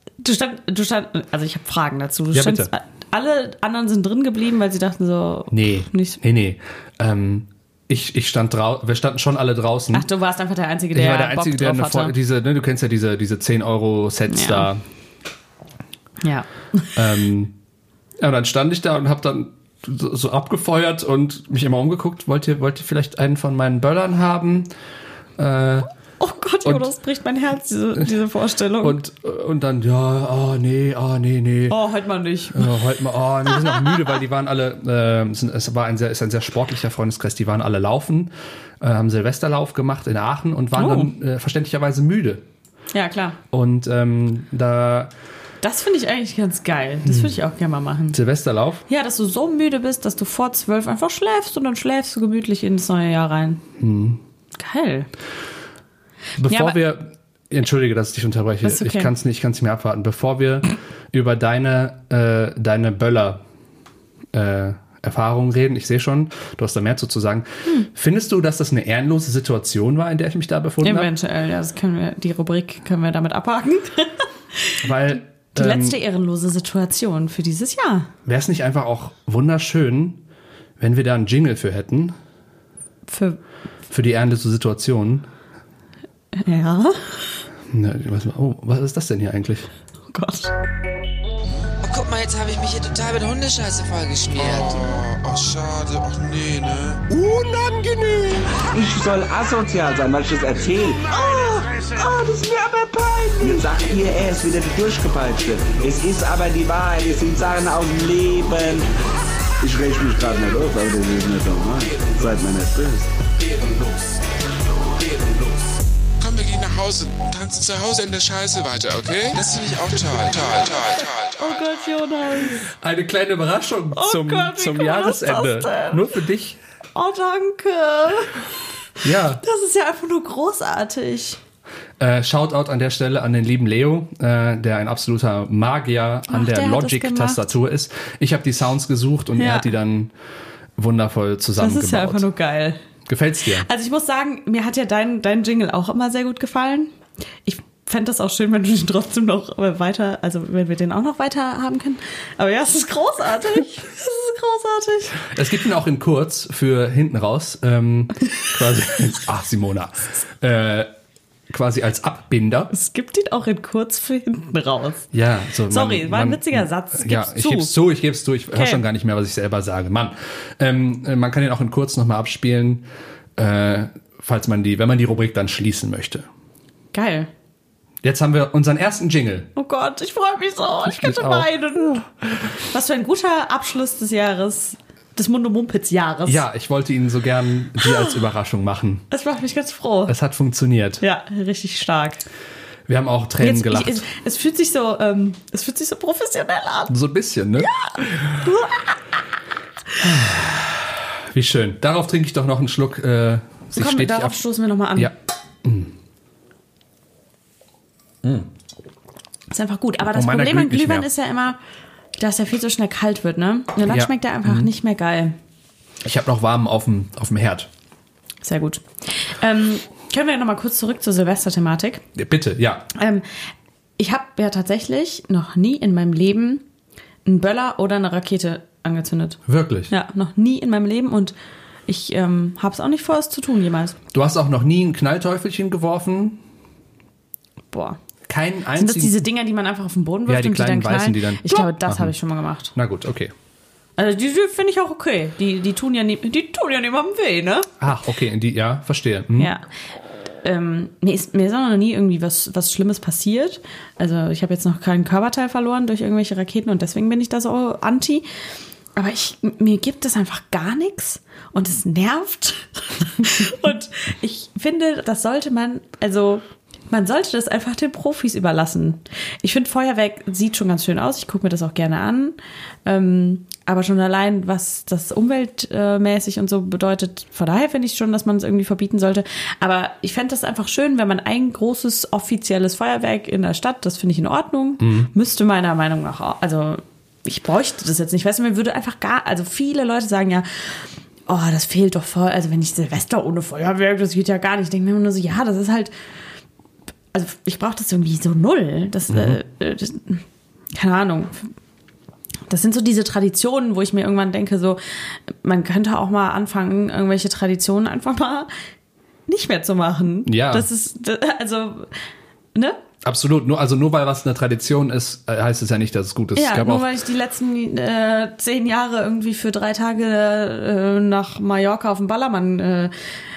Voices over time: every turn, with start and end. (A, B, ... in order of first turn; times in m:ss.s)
0:00.2-0:06.2 A
0:02.3-0:02.7 B
0:05.5-0:10.1 B
0:09.9-0:12.2 A
0:10.9-0:14.8 B
0:14.3-0:14.7 A
0:16.2-0:16.9 A
0:17.0-0:17.5 B
0:18.2-0:24.7 B
0:25.4-0:25.9 B
0:26.2-0:29.0 A
0:28.8-0:31.8 B
0:31.7-0:32.8 A
0:32.5-0:42.4 B
0:33.5-0:34.1 A
0:40.8-0:41.1 A
0:42.9-0:43.4 A
0:43.5-0:45.1 B
0:45.6-0:48.2 A
0:47.1-0:47.3 B
0:48.1-0:48.8 B
0:48.9-0:53.6 A
0:53.8-0:54.2 B
0:54.6-0:55.1 A
0:56.4-1:03.4 B
0:56.5-0:56.8 A
0:58.6-0:59.1 A
1:04.3-1:11.1 B
1:10.8-1:14.9 A
1:14.8-1:16.0 B
1:15.6-1:18.1 A
1:18.3-1:20.2 B
1:20.8-1:22.2 B
1:23.1-1:23.4 A
1:23.9-1:25.3 B
1:26.4-1:27.4 A
1:27.7-1:29.7 B
1:30.1-1:30.6 A
1:31.8-1:35.0 C
1:34.4-1:37.0 D
1:37.1-1:48.9 E
1:49.6-1:53.1 E
1:56.2-2:01.5 D
2:01.4-2:02.6 A
2:02.7-2:06.6 B
2:03.9-2:06.2 A
2:07.0-2:08.5 A
2:09.0-2:09.4 B
2:09.4-2:11.4 A
2:12.0-2:20.1 B
2:16.3-2:17.5 A
2:19.4-2:19.7 A
2:20.8-2:22.3 B
2:21.6-2:22.8 A
2:23.1-2:23.7 B
2:23.5-2:26.9 A
2:27.4-2:35.2 A
2:35.2-2:40.9 B
2:41.5-2:42.7 B
2:42.7-2:45.1 A
2:45.1-2:52.8 B
2:45.7-2:47.7 A
2:48.5-2:48.8 A
2:53.4-2:56.3 B
2:56.9-2:57.3 A
2:58.0-2:59.5 B
2:59.6-3:06.4 A
3:00.9-3:02.0 B
3:06.3-3:09.0 B
3:07.8-3:08.1 A
3:09.1-3:10.2 A
3:10.1-3:11.0 B
3:11.0-3:12.2 A
3:12.9-3:14.0 B
3:13.4-3:16.9 A
3:16.9-3:18.5 B
3:17.6-3:19.0 A
3:20.0-3:24.4 B
3:23.8-3:25.1 A
3:25.0-3:25.9 B
3:29.5-3:31.6 A
3:30.1-3:31.1 B
3:32.2-3:35.4 A
3:33.9-3:34.7 B
3:36.0-3:37.7 B
3:38.4-3:42.0 A
3:42.2-3:42.9 B
3:43.0-3:43.3 A
3:44.0-3:46.6 A
3:47.2-3:51.4 A
3:49.5-3:49.9 B
3:51.9-3:54.0 A
3:54.1-3:56.4 B
3:57.7-3:58.0 A
3:58.3-3:59.2 B
3:58.8-4:02.7 A
4:00.3-4:02.1 B
4:02.7-4:03.3 B
4:04.0-4:07.7 A
4:07.8-4:09.5 B
4:09.4-4:09.6 A
4:10.4-4:18.3 A
4:19.0-4:55.9 A
4:44.8-4:45.1 B
4:57.1-5:01.5 A
4:59.1-4:59.4 B
5:02.5-5:08.5 A
5:09.3-5:12.0 A
5:10.3-5:10.7 B
5:13.0-5:16.9 B
5:16.4-5:22.9 A